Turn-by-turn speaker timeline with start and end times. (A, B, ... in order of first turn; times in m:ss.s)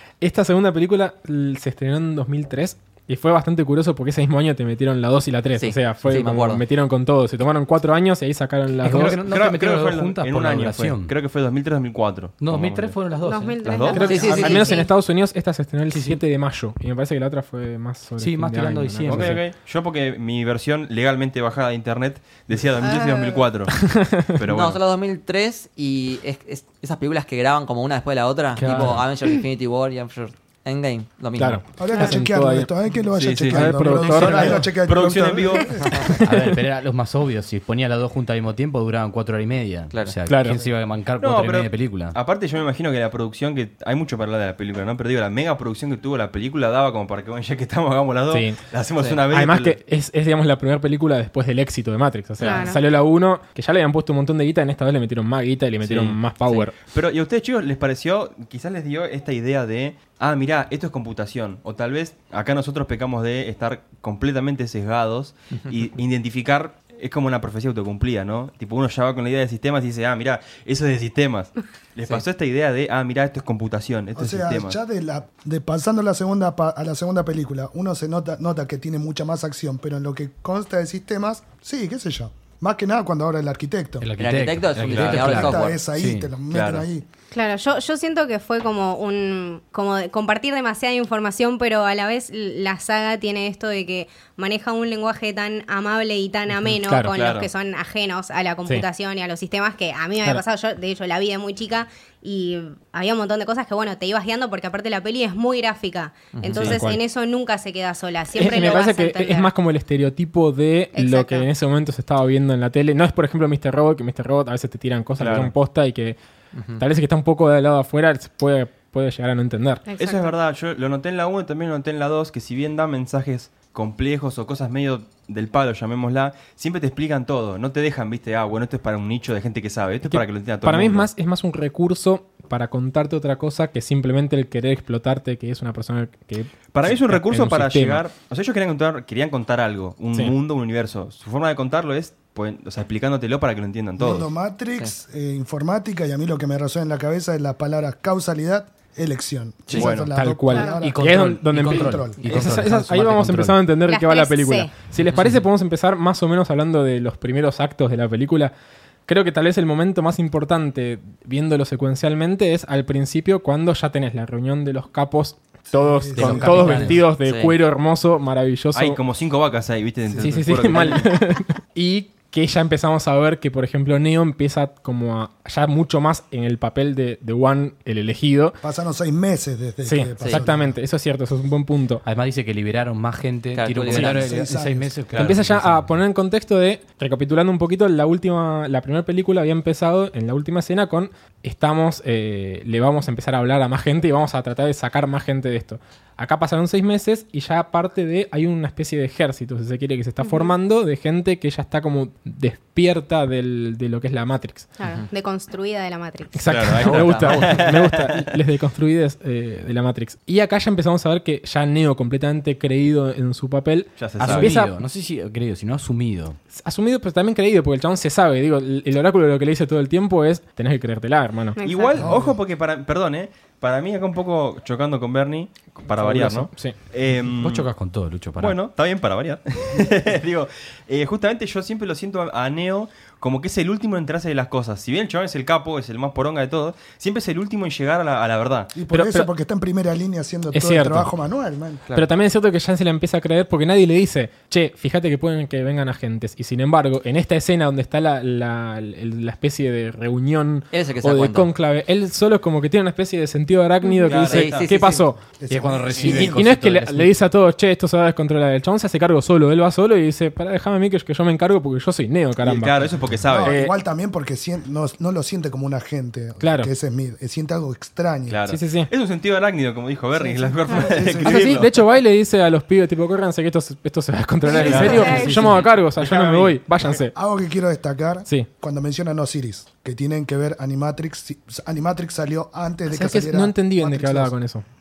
0:00.2-0:09.2 A
0:05.6-0:06.6 B
0:08.8-0:11.1 C
0:09.0-0:13.0 D
0:12.4-0:14.7 C
0:13.2-0:14.9 E
0:13.6-0:14.4 D
0:13.9-0:19.4 A
0:14.0-0:14.8 B
0:15.9-0:16.2 C
0:18.2-0:19.4 C
0:19.1-0:23.8 D
0:22.8-0:23.5 E
0:23.8-0:24.4 A
0:24.3-0:24.8 D
0:24.4-0:31.6 B
0:28.6-0:29.0 C
0:31.4-0:32.7 A
0:31.8-0:36.0 F
0:31.9-0:32.2 E
0:33.1-0:36.1 D
0:33.5-0:34.6 A
0:35.9-0:36.2 B
0:36.2-0:42.2 C
0:36.2-0:36.6 A
0:39.9-0:40.2 B
0:40.2-0:40.6 A
0:41.2-0:49.8 D
0:48.3-0:48.6 A
0:49.3-0:56.7 A
0:52.4-0:52.8 E
0:55.8-0:56.2 D
0:56.9-1:14.8 D
1:14.1-1:24.1 F
1:24.0-1:26.3 C
1:24.2-1:25.8 B
1:24.8-1:25.3 D
1:25.0-1:27.0 F
1:26.5-1:26.9 D
1:27.3-1:49.5 E
1:36.8-1:37.1 A
1:37.1-1:37.5 D
1:46.3-1:46.8 B
1:46.6-1:47.0 A
1:48.3-1:56.2 A
1:50.9-1:51.5 E
1:55.2-1:55.5 D
1:56.5-1:56.8 B
1:56.8-1:59.8 A
1:59.8-2:00.3 E
2:00.0-2:11.1 D
2:10.0-2:18.0 A
2:16.7-2:24.3 D
2:24.0-2:32.5 F
2:29.7-2:30.1 D
2:29.7-2:38.5 A
2:30.5-2:30.8 E
2:30.8-2:33.6 C
2:33.8-2:34.7 E
2:39.1-2:49.0 A
2:45.7-2:47.0 F
2:46.1-2:47.1 C
2:47.2-2:47.6 B
2:48.8-2:51.1 D
2:50.0-2:50.9 F
2:50.2-2:58.6 A
2:58.6-3:00.8 F
2:59.8-3:02.0 A
3:02.0-3:06.0 C
3:03.5-3:04.4 B
3:03.9-3:04.9 F
3:05.1-3:24.7 A
3:20.2-3:20.5 E
3:24.8-3:26.4 E
3:26.3-3:34.8 A
3:26.4-3:28.3 D
3:26.8-3:27.6 B
3:34.0-3:34.5 D
3:34.2-3:36.4 C
3:36.5-3:41.6 A
3:41.6-3:42.1 E
3:41.6-3:47.7 D
3:42.0-3:42.4 F
3:45.9-3:46.8 A
3:47.3-3:48.6 C
3:48.4-3:58.7 D
3:58.7-4:01.8 F
3:58.9-3:59.3 A
4:00.5-4:01.1 A
4:01.9-4:15.2 A
4:10.7-4:11.5 B
4:13.8-4:14.1 E
4:14.1-4:14.7 D
4:14.2-4:15.0 B
4:15.3-4:16.4 F
4:15.5-4:17.1 C
4:16.0-4:22.8 A
4:22.4-4:23.5 D
4:23.2-4:28.4 F
4:23.4-4:23.8 A
4:26.4-4:26.7 A
4:28.3-4:31.8 D
4:28.5-4:28.9 A
4:30.2-4:31.6 F
4:31.2-4:37.1 A
4:34.4-4:35.7 E
4:34.5-4:36.9 D
4:37.1-4:44.4 F
4:42.9-4:44.6 A